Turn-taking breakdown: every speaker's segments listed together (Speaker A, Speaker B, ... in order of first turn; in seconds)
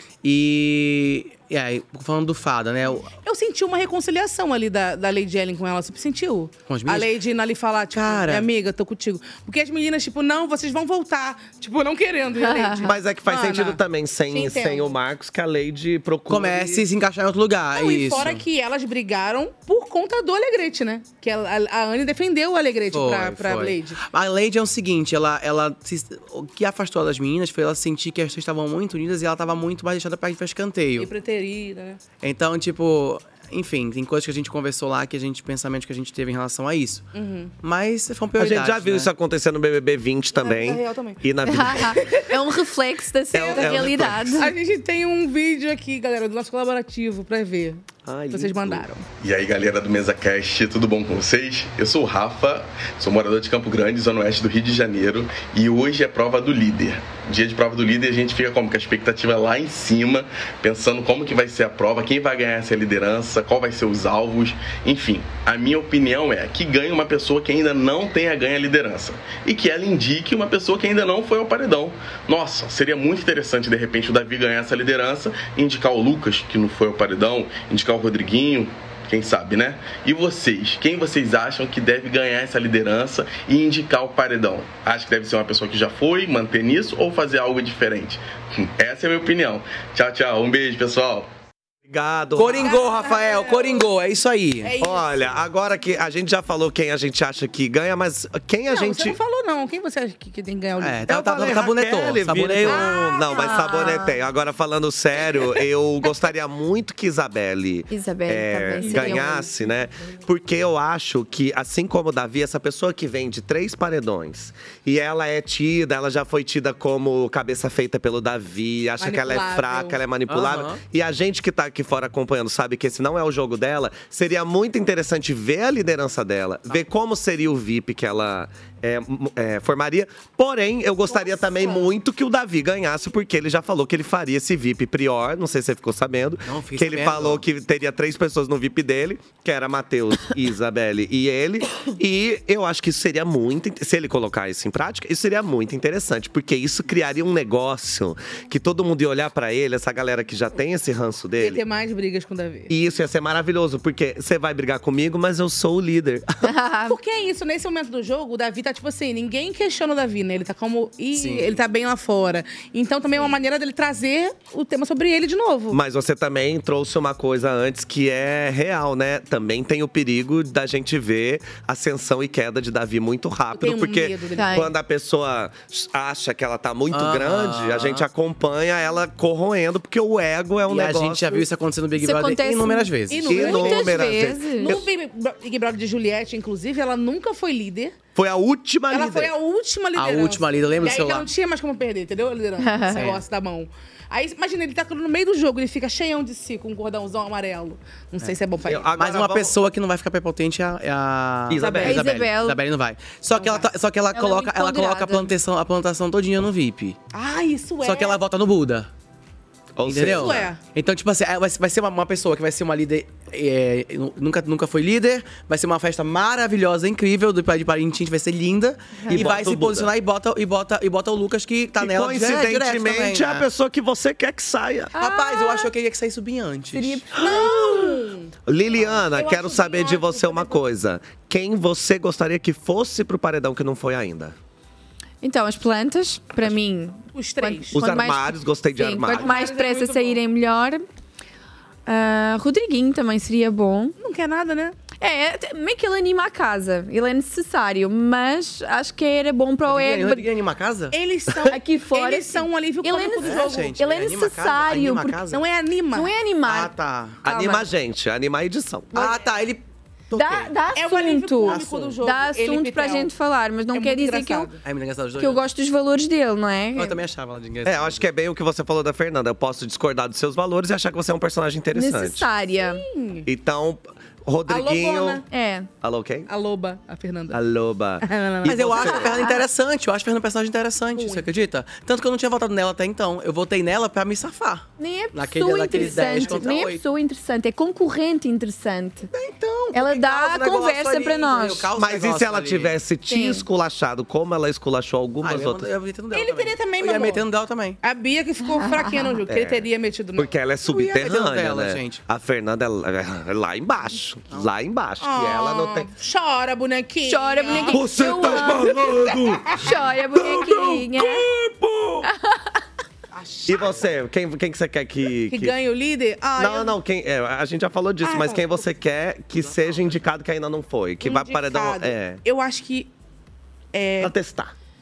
Speaker A: 0.2-3.1, 6.7-7.1, 7.9-8.5, 16.3-18.4, 22.9-31.1, 32.2-37.1, 37.6-39.1, 92.4-94.7, 100.8-102.9, 120.3-120.8, 136.4-137.4, 161.1-161.6, 176.9-178.1, 180.7-183.5, 189.9-191.3, 192.9-193.2, 198.9-207.0, 207.8-208.9, 209.9-223.4, 225.0-227.1, 249.7-251.5, 253.2-255.4, 256.4-257.2, 258.9-260.6, 261.5-262.0, 264.6-265.4, 266.8-268.0, 278.4-286.8, 289.1-292.7, 295.2-297.8, 300.7-302.0, 319.4-320.0
Speaker B: 3.2-15.0, 17.7-24.0, 31.0-32.0, 37.1-37.5, 40.4-41.2, 41.9-42.3, 43.4-49.1, 92.5-94.0, 94.6-95.5, 98.7-101.2, 102.7-104.0, 108.8-109.5, 119.0-120.0, 131.1-131.9, 151.4-152.7, 156.9-165.8, 173.5-174.7, 183.1-188.0, 188.9-198.9, 201.6-202.1, 203.4-203.7, 207.1-208.2, 210.1-210.6, 227.2-228.3, 228.9-230.6, 237.1-237.8, 239.1-240.2, 244.0-244.8, 250.9-253.8, 255.3-256.1, 260.7-263.1, 263.7-264.6, 272.6-273.3, 274.4-275.2, 276.3-277.4, 278.0-279.0, 280.9-281.3, 296.1-297.2, 297.8-300.3, 305.0-309.6, 313.1-313.9, 315.3-316.8, 318.0-318.8, 321.0-322.9, 323.7-324.2
Speaker C: 12.4-12.9, 41.5-44.5, 103.3-104.2, 107.9-109.4, 156.4-157.0, 174.3-174.7, 182.0-184.7, 192.6-193.0, 201.8-202.6, 204.1-205.3, 219.0-219.3, 224.9-225.7, 226.7-227.2, 235.2-240.8, 241.9-243.9, 245.0-250.3, 251.5-255.2, 255.9-256.7, 257.2-257.7, 260.1-264.5, 265.2-267.0, 271.7-272.8, 275.3-275.7, 278.9-279.4, 284.8-289.1, 289.7-291.7, 293.1-293.4, 298.4-299.2, 307.1-308.8, 309.5-311.3, 312.0-312.6
Speaker D: 12.8-16.8, 38.4-42.0, 43.3-44.4, 48.0-48.9, 91.9-92.7, 94.8-99.2, 101.1-151.6, 152.7-156.3, 165.7-181.4, 183.3-184.9, 188.2-189.3, 198.6-199.5, 201.5-202.0, 209.8-210.5, 219.1-219.9, 221.8-224.9, 227.2-234.3, 237.7-239.4, 257.2-259.1, 267.6-272.3, 273.3-275.2, 275.8-276.3, 277.3-279.2, 291.8-295.7, 299.3-305.9, 307.5-312.0, 313.5-315.6, 316.4-322.2, 324.0-324.5
Speaker E: 49.2-91.3